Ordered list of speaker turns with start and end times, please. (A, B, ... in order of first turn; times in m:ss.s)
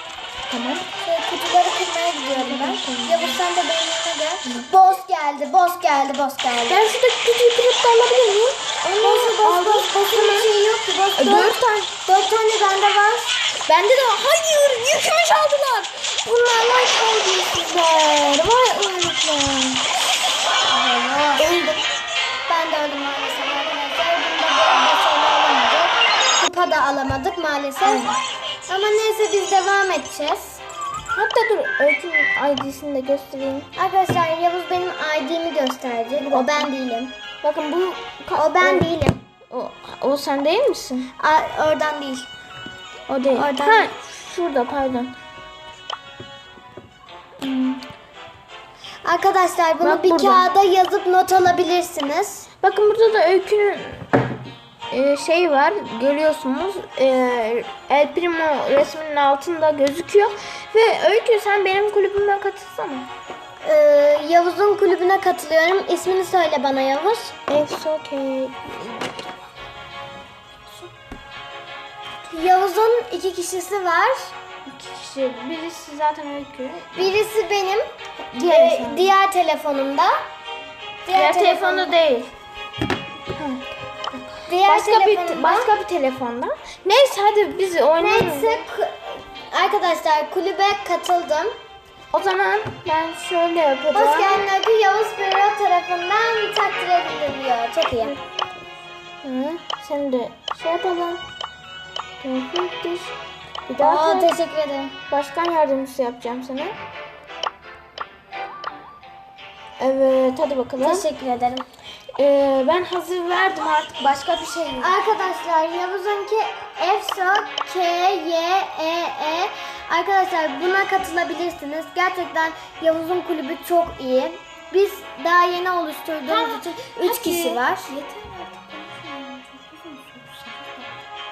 0:00.5-0:00.9 A
0:01.0-0:06.9 B
0:02.3-0:03.4 A
0:04.4-0:04.7 A
0:06.7-0:10.5 A
0:09.0-0:13.4 B
0:11.2-0:11.9 A
0:13.7-0:19.9 A
0:20.7-0:21.5 B
0:21.0-0:21.8 A
0:22.5-0:28.0 B
0:27.8-0:28.2 A
0:28.7-0:30.6 B
0:31.1-0:33.7 A
0:33.8-0:37.1 B
0:36.2-0:36.7 A
0:37.4-0:38.9 A
0:38.4-0:39.2 B
0:39.5-0:41.1 A
0:41.2-0:42.3 B
0:43.1-0:45.1 A
0:43.3-0:43.9 B
0:47.4-0:47.8 A
0:49.0-0:52.5 B
0:49.8-0:50.5 A
0:52.6-0:54.2 A
0:54.9-1:03.1 A
1:03.6-1:07.3 B
1:07.5-1:09.1 A
1:12.2-1:14.3 B
1:14.7-1:17.1 A
1:16.9-1:17.8 B
1:18.3-1:19.1 A
1:18.4-1:20.1 B
1:21.1-1:22.0 B
1:21.1-1:22.3 A
1:23.4-1:28.6 A
1:24.5-1:25.7 B
1:28.0-1:31.5 B
1:32.1-1:34.4 A
1:33.9-1:38.2 B
1:39.2-1:41.2 A
1:42.2-1:43.1 A
1:43.7-1:44.4 A
1:43.8-1:45.0 B
1:45.1-1:46.8 A
1:49.8-1:51.1 A
1:50.8-1:51.7 B
1:52.2-1:55.0 A
1:54.8-2:07.9 B
2:06.3-2:11.0 A